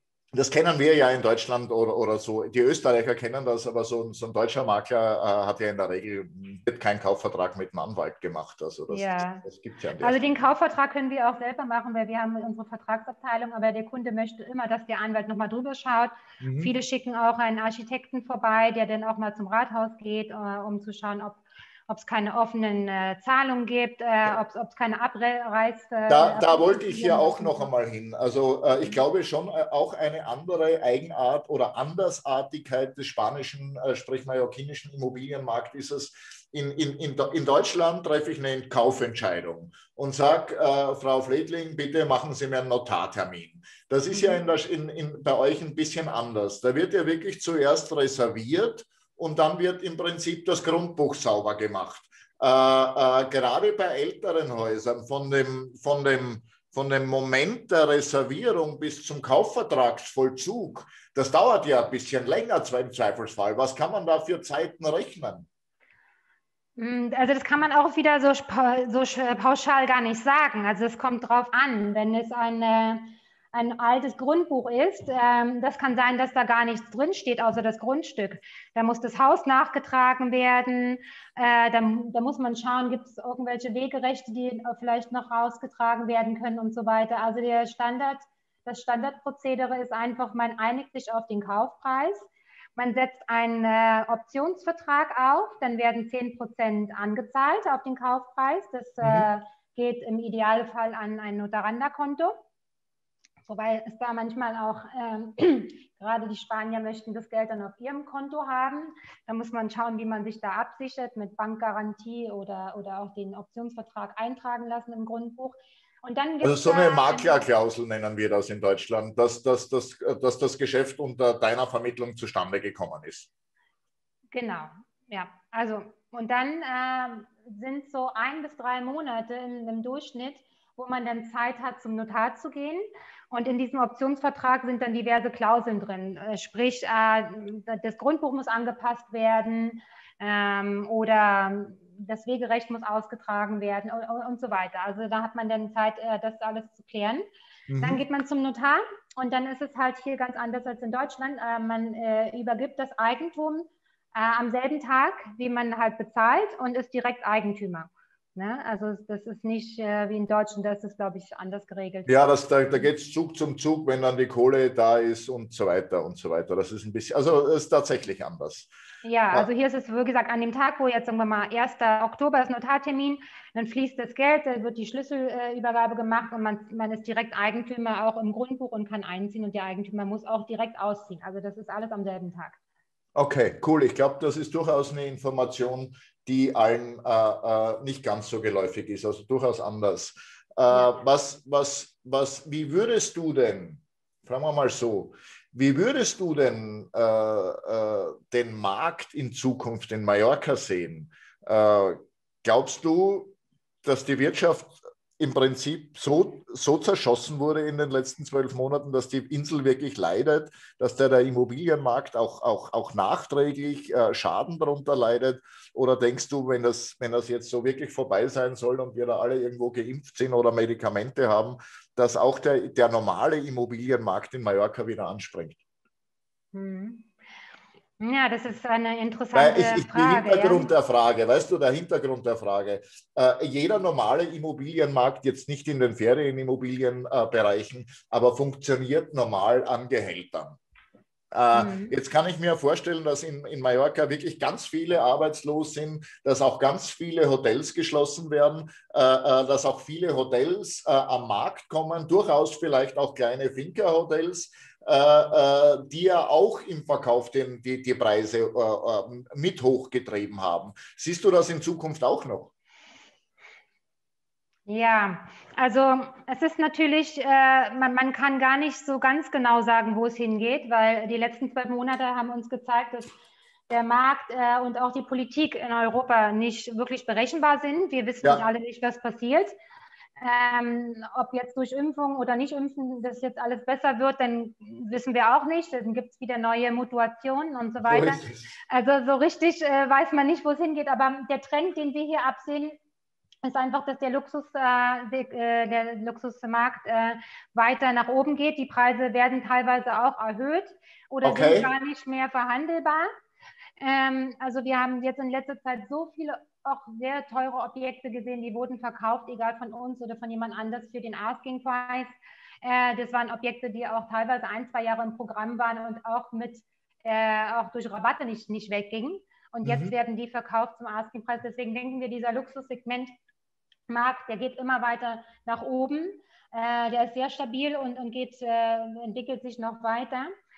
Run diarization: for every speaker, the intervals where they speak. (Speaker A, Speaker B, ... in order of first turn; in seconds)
Speaker A: 0.3-10.2, 16.4-16.7, 26.1-65.5, 99.0-99.3, 116.4-123.3, 147.7-148.0, 162.1-168.7, 183.2-225.6, 229.3-240.6, 241.3-262.5, 287.9-288.5, 301.2-301.7, 319.6-319.9
Speaker B: 8.9-9.4, 10.0-27.7, 44.1-44.4, 66.8-102.4, 103.5-117.4, 124.3-147.2, 147.8-162.9, 169.0-182.6, 226.5-227.1, 228.0-230.7, 241.5-241.9, 264.7-273.1, 273.7-279.5, 280.2-292.8, 293.4-303.1, 303.8-323.1, 323.9-330.3